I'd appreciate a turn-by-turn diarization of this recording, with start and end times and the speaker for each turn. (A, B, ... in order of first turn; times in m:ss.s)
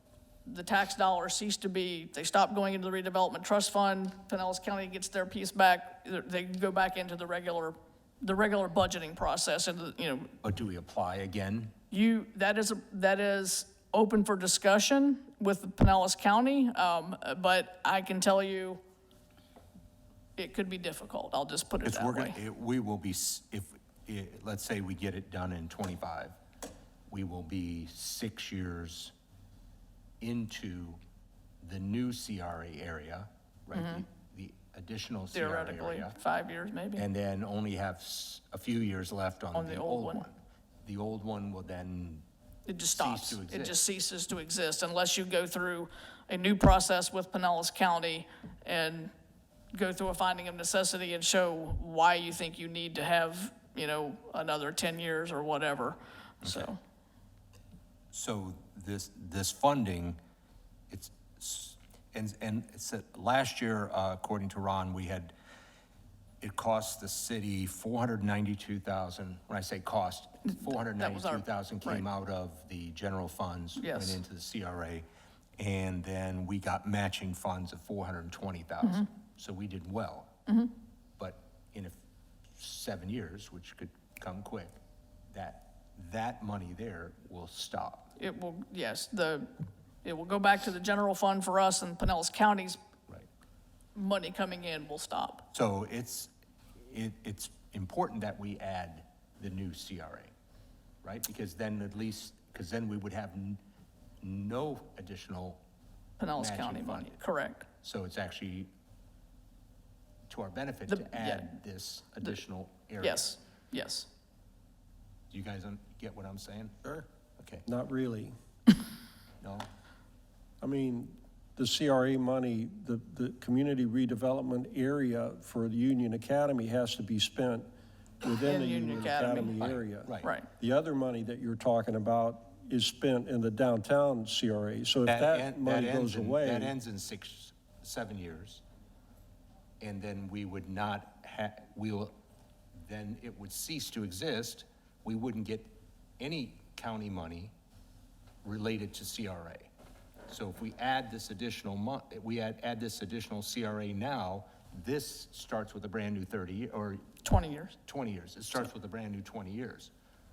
0:00.5-0:10.3 A
0:10.4-0:11.7 B
0:11.9-0:18.8 A
0:20.4-0:22.4 A
0:21.8-0:26.4 B
0:27.1-0:29.1 B
0:30.2-0:31.0 B
0:31.6-0:36.2 B
0:33.7-0:34.0 A
0:35.3-0:37.0 A
0:37.0-0:42.2 B
0:39.5-0:40.3 A
0:42.7-0:49.1 A
0:42.9-0:43.8 B
0:49.7-0:56.8 A
0:56.4-0:56.7 B
0:58.1-1:00.2 B
1:00.9-1:05.3 B
1:06.4-1:15.1 B
1:10.5-1:12.1 A
1:13.8-1:14.2 A
1:15.6-1:20.3 B
1:21.2-1:22.0 B
1:22.6-1:24.8 B
1:25.3-1:28.1 B
1:28.2-1:29.5 A
1:30.0-1:32.8 A
1:34.0-1:35.4 A
1:35.5-1:40.3 B
1:41.0-1:43.6 B
1:44.2-1:45.6 B
1:46.2-1:47.7 A
1:46.4-1:47.1 B
1:47.8-1:48.7 B
1:50.3-1:53.3 B
1:50.9-1:51.5 A
1:53.0-1:54.1 A
1:55.3-1:57.6 B
1:57.7-1:58.3 C
1:59.4-1:59.7 B
2:00.6-2:07.7 C
2:08.2-2:16.7 C
2:08.4-2:09.6 A
2:09.6-2:10.3 B
2:10.2-2:10.5 A
2:15.1-2:18.6 B
2:19.8-2:22.1 B
2:22.8-2:27.5 B
2:28.4-2:29.7 B
2:30.3-2:37.0 B
2:37.2-2:37.8 A
2:37.8-2:39.9 B